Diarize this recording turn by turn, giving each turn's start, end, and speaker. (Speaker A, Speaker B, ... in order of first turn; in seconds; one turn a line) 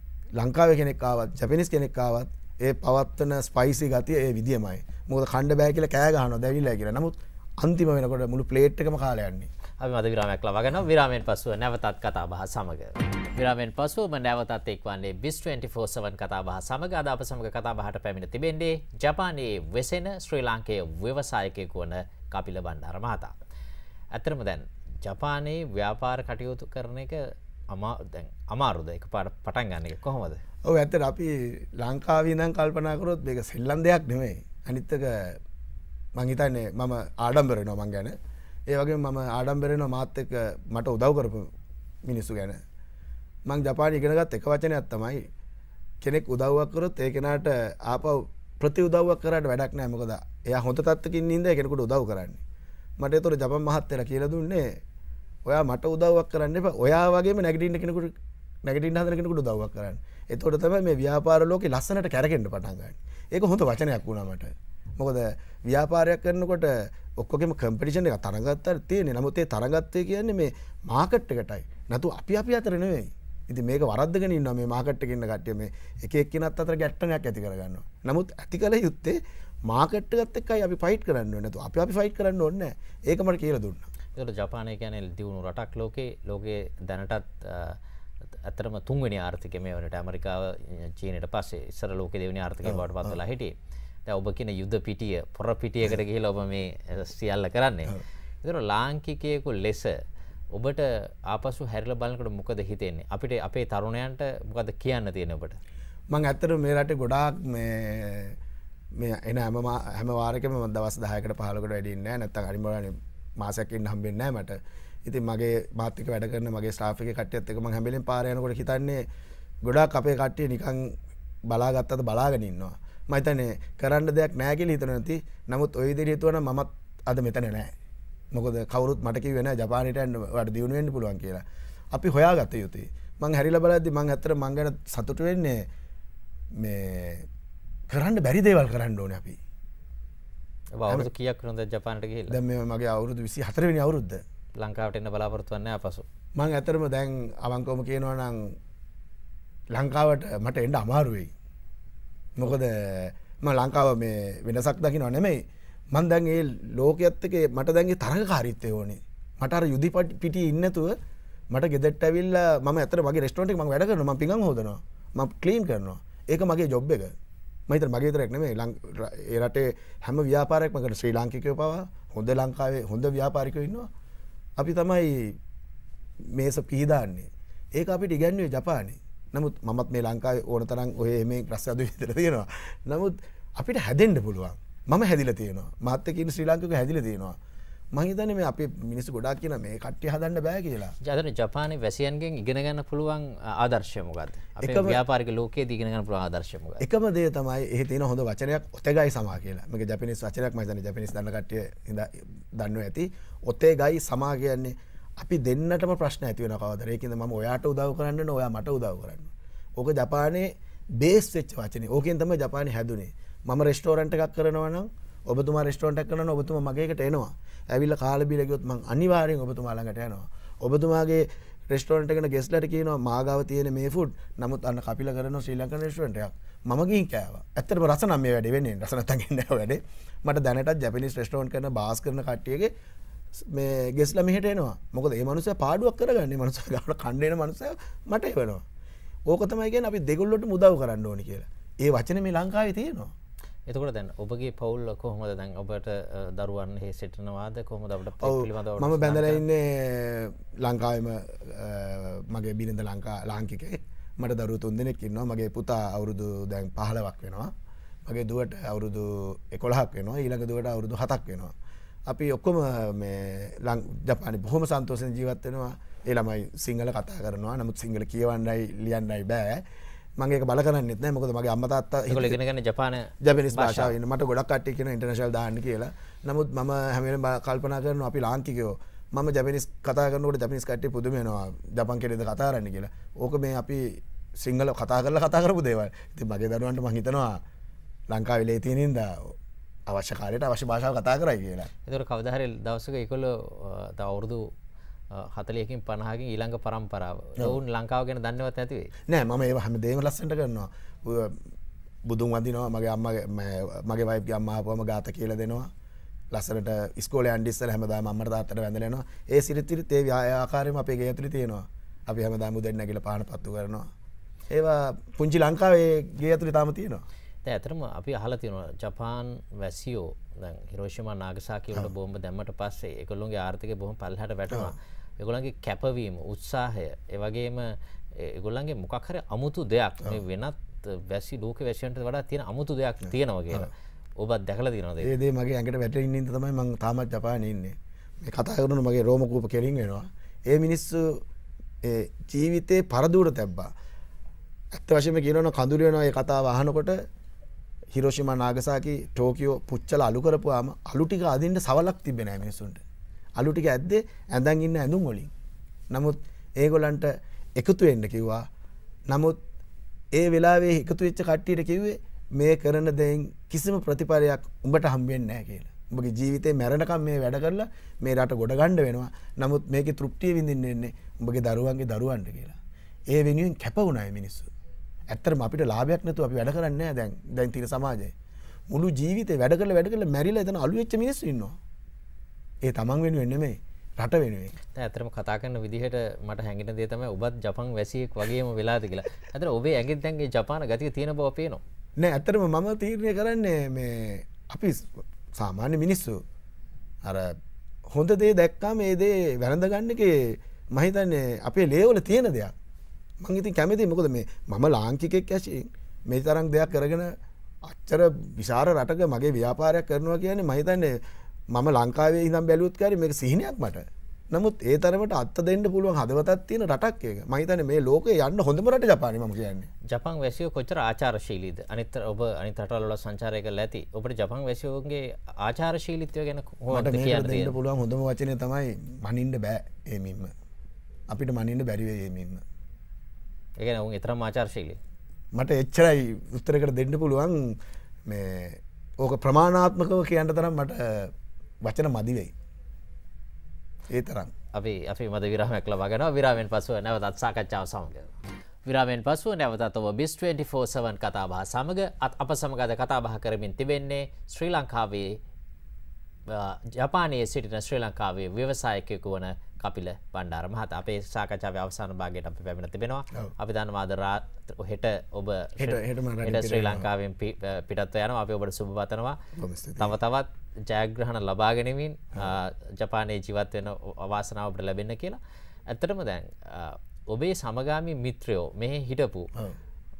Speaker A: 0.3-9.5
Speaker B: 9.8-23.3
Speaker B: 24.1-30.4
Speaker A: 30.6-35.4
Speaker A: 36.1-38.1
Speaker A: 38.7-41.5
Speaker A: 42.0-42.6
Speaker A: 43.5-45.2
Speaker A: 46.0-52.4
Speaker A: 53.0-54.6
Speaker A: 55.5-83.9
Speaker B: 84.1-87.8
Speaker B: 88.4-93.5
Speaker A: 92.6-93.2
Speaker B: 94.0-100.0
Speaker B: 100.5-105.6
Speaker A: 106.1-108.4
Speaker A: 109.0-119.1
Speaker A: 119.6-120.9
Speaker A: 121.5-127.7
Speaker A: 128.3-135.7
Speaker A: 136.6-137.2
Speaker A: 137.9-139.4
Speaker B: 140.8-142.4
Speaker A: 142.3-144.2
Speaker B: 144.6-146.0
Speaker A: 146.4-148.5
Speaker A: 149.7-151.3
Speaker A: 152.4-160.9
Speaker A: 161.5-167.1
Speaker A: 167.7-173.9
Speaker A: 174.6-175.4
Speaker A: 176.3-187.4
Speaker A: 187.9-190.9
Speaker B: 191.0-196.8
Speaker A: 194.6-195.0
Speaker A: 196.8-210.5
Speaker A: 211.0-232.7
Speaker A: 233.4-238.6
Speaker A: 239.3-243.1
Speaker B: 243.7-249.4
Speaker A: 248.2-257.5
Speaker A: 258.1-261.5
Speaker A: 262.1-269.6
Speaker A: 270.2-272.4
Speaker B: 272.1-273.9
Speaker A: 273.2-283.9
Speaker A: 284.4-287.4
Speaker A: 288.1-289.3
Speaker A: 289.9-291.7
Speaker B: 291.8-294.5
Speaker B: 295.1-298.9
Speaker A: 299.1-301.4
Speaker A: 302.1-305.7
Speaker A: 306.3-313.9
Speaker A: 314.5-317.0
Speaker B: 317.4-335.1
Speaker A: 335.0-341.2
Speaker A: 341.8-343.7
Speaker A: 344.7-347.0
Speaker A: 347.9-352.8
Speaker A: 353.4-355.3
Speaker A: 355.9-358.4
Speaker A: 359.1-359.4
Speaker A: 360.1-372.6
Speaker A: 373.1-374.5
Speaker A: 375.1-378.1
Speaker A: 378.7-381.6
Speaker A: 382.6-384.5
Speaker B: 384.7-391.6
Speaker A: 392.0-396.2
Speaker A: 397.0-397.3
Speaker A: 397.9-402.5
Speaker A: 403.2-411.0
Speaker A: 411.5-419.7
Speaker B: 419.9-427.6
Speaker A: 426.7-430.3
Speaker A: 431.1-432.4
Speaker B: 433.6-434.8
Speaker A: 435.3-441.1
Speaker A: 441.6-442.3
Speaker A: 443.9-444.3
Speaker B: 444.5-455.2
Speaker B: 456.3-469.2
Speaker A: 465.6-466.9
Speaker A: 469.4-469.9
Speaker B: 469.8-479.3